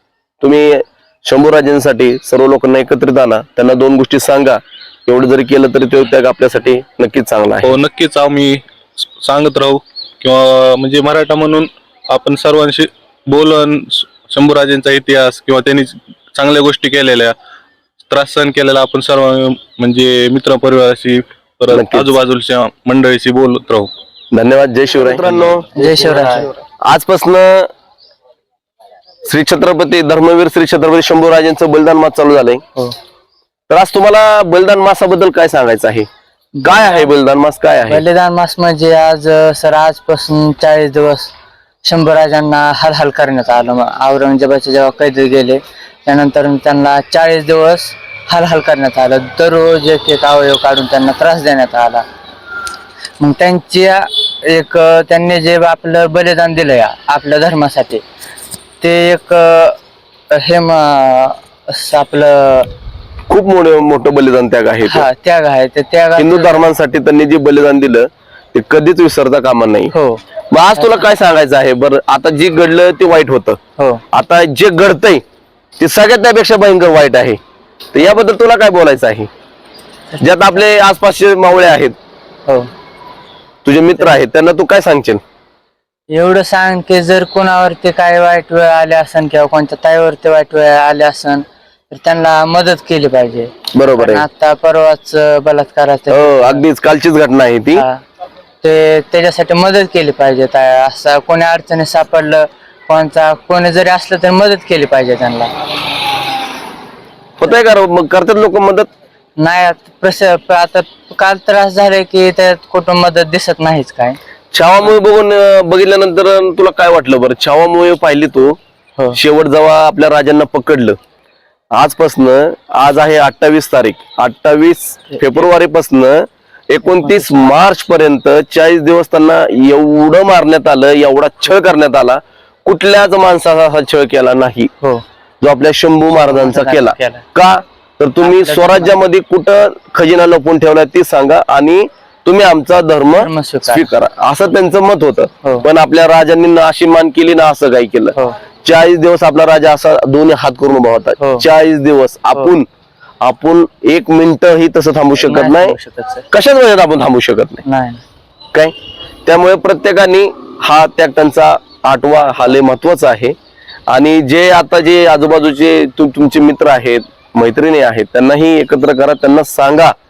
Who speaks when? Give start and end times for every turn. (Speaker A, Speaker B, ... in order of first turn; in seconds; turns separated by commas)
Speaker A: 0.4-7.8, Speaker B: 7.6-17.4, Speaker B: 18.1-23.9, Speaker A: 21.7-22.1, Speaker A: 24.3-25.7, Speaker B: 25.2-25.7, Speaker C: 25.8-26.5, Speaker A: 26.8-27.7, Speaker A: 29.2-32.6, Speaker A: 33.7-36.1, Speaker C: 36.6-37.0, Speaker A: 36.6-38.0, Speaker C: 37.9-41.3, Speaker C: 41.8-52.0, Speaker C: 53.2-58.0, Speaker C: 58.8-59.8, Speaker C: 60.3-62.7, Speaker A: 63.3-65.1, Speaker C: 64.9-66.7, Speaker A: 66.2-69.9, Speaker C: 69.9-70.2, Speaker A: 70.5-73.6, Speaker C: 70.8-71.0, Speaker A: 74.1-75.2, Speaker A: 75.8-77.4, Speaker A: 77.9-79.3, Speaker A: 80.2-82.0, Speaker A: 83.7-85.2, Speaker C: 86.1-96.6, Speaker A: 93.7-94.2, Speaker A: 96.1-97.8, Speaker C: 97.8-98.0, Speaker C: 98.6-105.5, Speaker A: 107.4-108.9, Speaker C: 109.4-114.2, Speaker A: 114.5-118.6, Speaker A: 119.1-121.0, Speaker A: 121.7-134.7, Speaker C: 126.9-127.5, Speaker A: 135.4-152.7, Speaker C: 136.1-137.2, Speaker C: 138.2-139.0, Speaker C: 143.2-143.9, Speaker A: 153.2-155.8, Speaker C: 155.2-156.3, Speaker A: 156.3-157.6, Speaker C: 157.7-158.0, Speaker A: 159.3-163.4, Speaker A: 163.9-169.9